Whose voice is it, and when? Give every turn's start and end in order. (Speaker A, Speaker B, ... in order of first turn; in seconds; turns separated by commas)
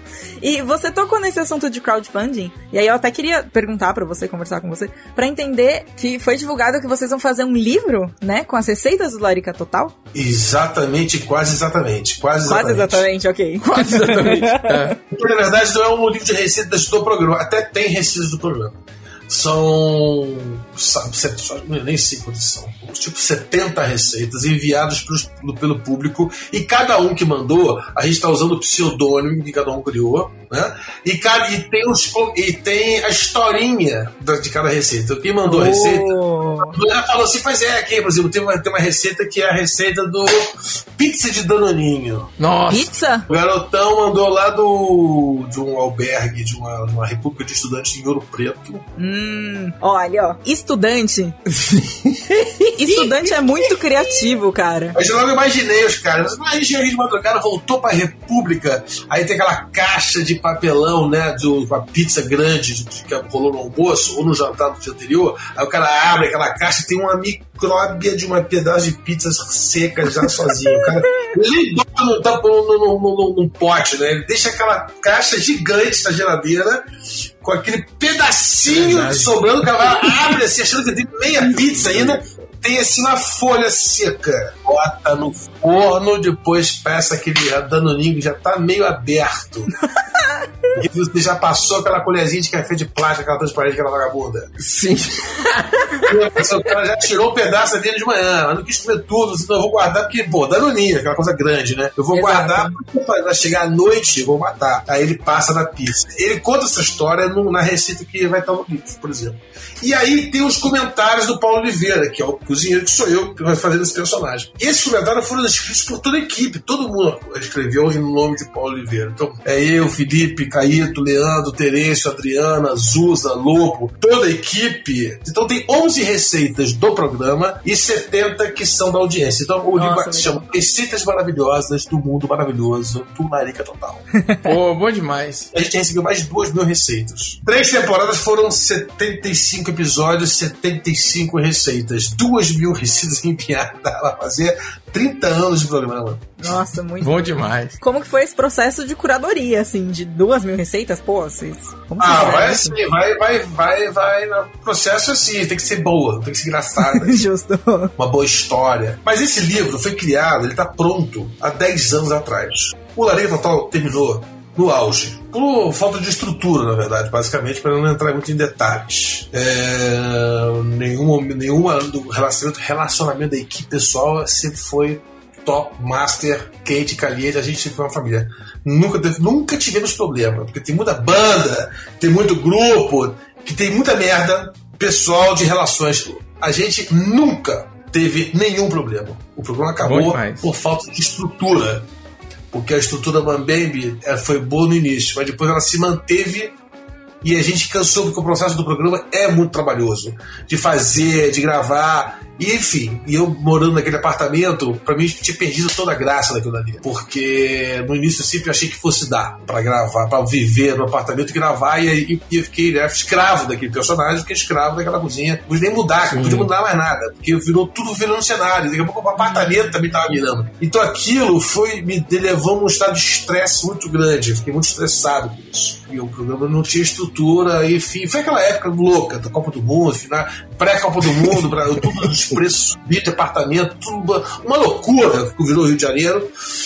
Speaker A: 0.4-9.9, Speaker B: 10.1-13.1, Speaker A: 12.4-14.9, Speaker C: 13.6-14.9, Speaker B: 15.1-42.3, Speaker A: 35.4-36.7, Speaker C: 42.4-42.9, Speaker A: 42.7-43.2, Speaker B: 43.3-48.8, Speaker A: 49.0-51.4, Speaker C: 51.5-53.5, Speaker A: 52.7-55.0, Speaker B: 54.9-76.8, Speaker B: 77.4-89.7, Speaker C: 78.7-79.4, Speaker C: 81.8-82.2, Speaker B: 90.7-94.5, Speaker C: 94.6-96.2, Speaker B: 96.0-134.0, Speaker A: 102.1-102.8, Speaker A: 129.8-130.4, Speaker A: 134.1-134.5, Speaker C: 134.4-135.5, Speaker B: 135.5-146.5, Speaker A: 146.4-147.1, Speaker C: 147.0-147.8, Speaker A: 147.8-152.8, Speaker B: 152.0-157.2, Speaker A: 156.8-157.9, Speaker B: 158.0-191.8, Speaker C: 189.8-190.5, Speaker B: 192.5-196.5, Speaker B: 197.2-236.3, Speaker C: 216.0-216.5